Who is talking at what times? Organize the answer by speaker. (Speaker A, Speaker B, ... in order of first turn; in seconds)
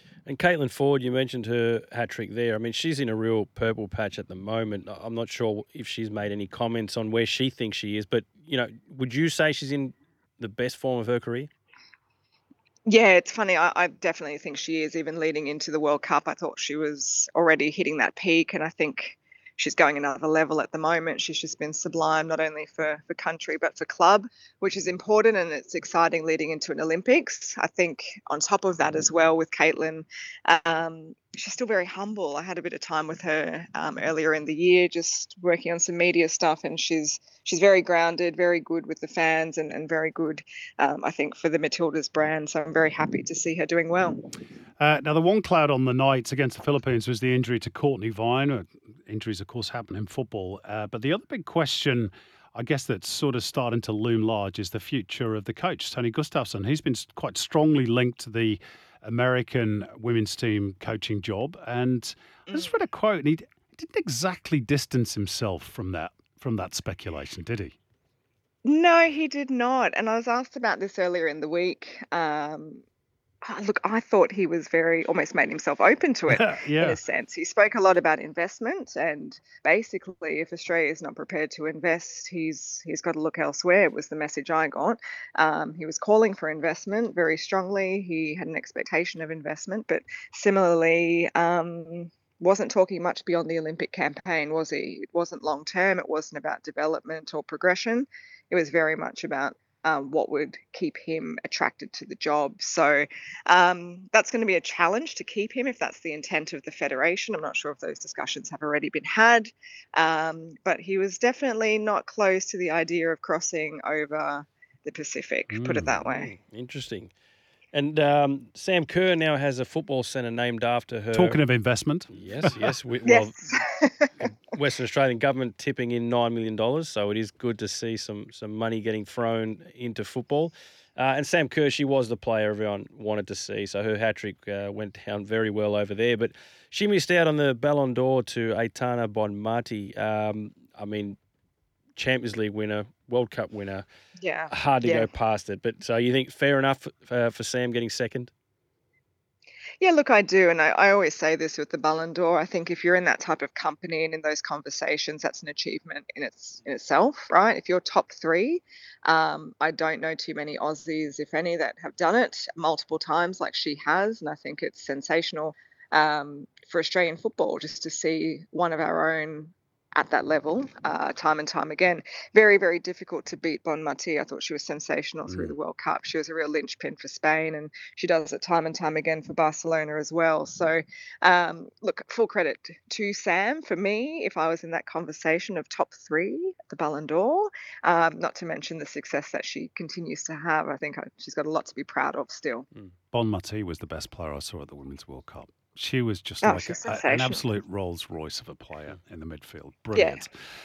Speaker A: 0.3-11.5, 116.1-117.1, 117.7-121.4, 122.1-123.6, 124.2-141.2, 142.0-143.9, 144.5-148.3
Speaker B: 12.9-44.3, 62.5-62.7, 68.6-72.8, 73.4-116.3, 123.0-124.1, 144.2-145.1, 149.8-192.7, 196.4-197.4, 199.9-200.2
Speaker C: 44.8-67.8, 76.3-77.0, 115.5-116.0, 121.1-122.5, 175.3-175.5, 193.1-200.3